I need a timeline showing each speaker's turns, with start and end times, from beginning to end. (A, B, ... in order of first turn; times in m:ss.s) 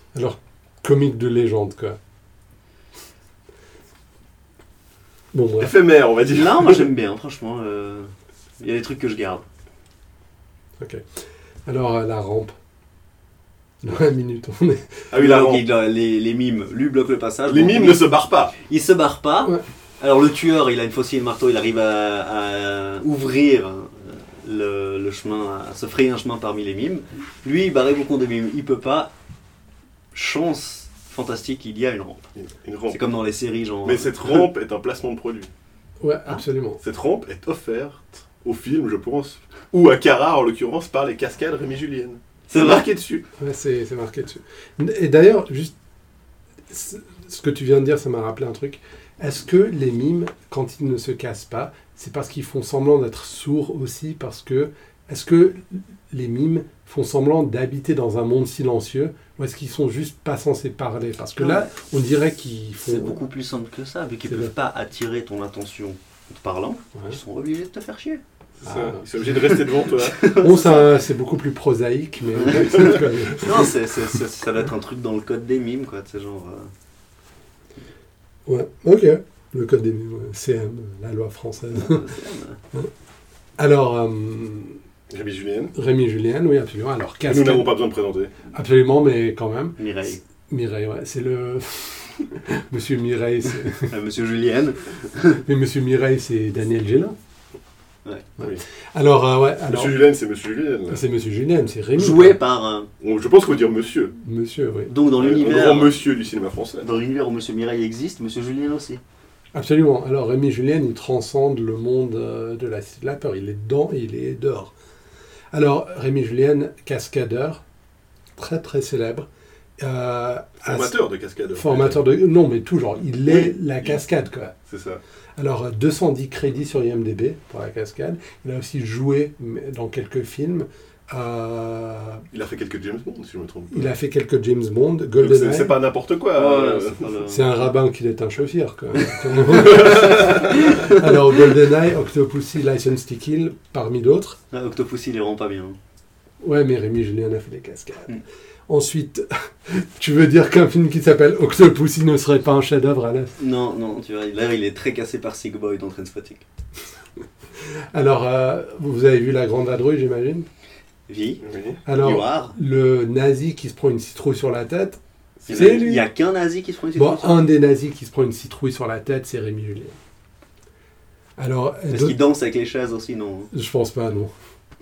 0:00.1-0:02.0 A
0:05.3-0:05.7 A
0:05.6-0:06.9 B
0:06.3-0:09.5 C
0:10.8-0:11.0 A
0:11.7-0:12.6 A
0:13.8-0:15.0 A
0:15.1-0:15.7 B
0:15.2-0:29.1 C
0:17.5-0:18.6 B
0:30.1-0:32.3 C
0:32.4-0:33.0 B
0:32.9-0:34.4 C
0:33.8-0:35.5 B
0:36.0-0:36.8 A
0:36.8-0:43.2 B
0:42.5-0:42.9 C
0:43.4-0:45.7 A
0:46.7-1:03.2 A
1:01.4-1:01.7 C
1:02.8-1:08.2 C
1:08.6-1:10.2 B
1:08.6-1:09.0 A
1:09.5-1:11.0 C
1:10.3-1:13.8 A
1:12.4-1:16.7 C
1:12.6-1:13.0 B
1:18.5-1:22.1 A
1:21.7-1:22.6 C
1:23.6-1:24.8 A
1:25.1-1:25.7 B
1:25.8-1:27.7 A
1:27.3-1:28.3 B
1:28.5-1:29.8 A
1:29.8-1:30.2 C
1:30.5-1:33.9 A
1:33.9-1:35.4 C
1:35.5-1:37.2 A
1:38.4-1:40.0 A
1:39.7-1:41.0 B
1:40.9-1:42.4 A
1:42.0-1:42.9 C
1:43.0-1:44.1 B
1:44.2-1:44.9 A
1:44.9-1:46.0 C
1:45.2-1:46.9 B
1:46.8-1:49.0 C
1:49.5-1:54.7 A
1:55.5-1:57.6 A
1:58.4-1:59.3 A
1:59.8-2:01.0 A
2:00.6-2:02.0 B
2:01.6-2:04.5 A
2:03.3-2:04.0 B
2:04.7-2:05.0 B
2:05.4-2:12.2 A
2:12.3-2:13.9 B
2:13.7-2:15.8 A
2:15.2-2:17.1 B
2:16.3-2:17.6 C
2:17.3-2:24.4 A
2:19.5-2:20.5 B
2:19.7-2:21.0 C
2:24.5-2:25.8 C
2:26.4-2:28.2 A
2:28.7-2:33.4 A
2:33.4-2:36.4 C
2:37.6-2:40.5 A
2:41.1-2:41.4 C
2:41.4-2:41.8 B
2:41.9-2:45.0 A
2:42.0-2:42.6 C
2:45.4-2:45.9 B
2:45.5-2:47.4 C
2:45.5-2:46.1 A
2:47.0-2:50.0 A
2:51.4-2:52.2 A
2:51.9-2:53.5 C
2:53.5-2:54.3 A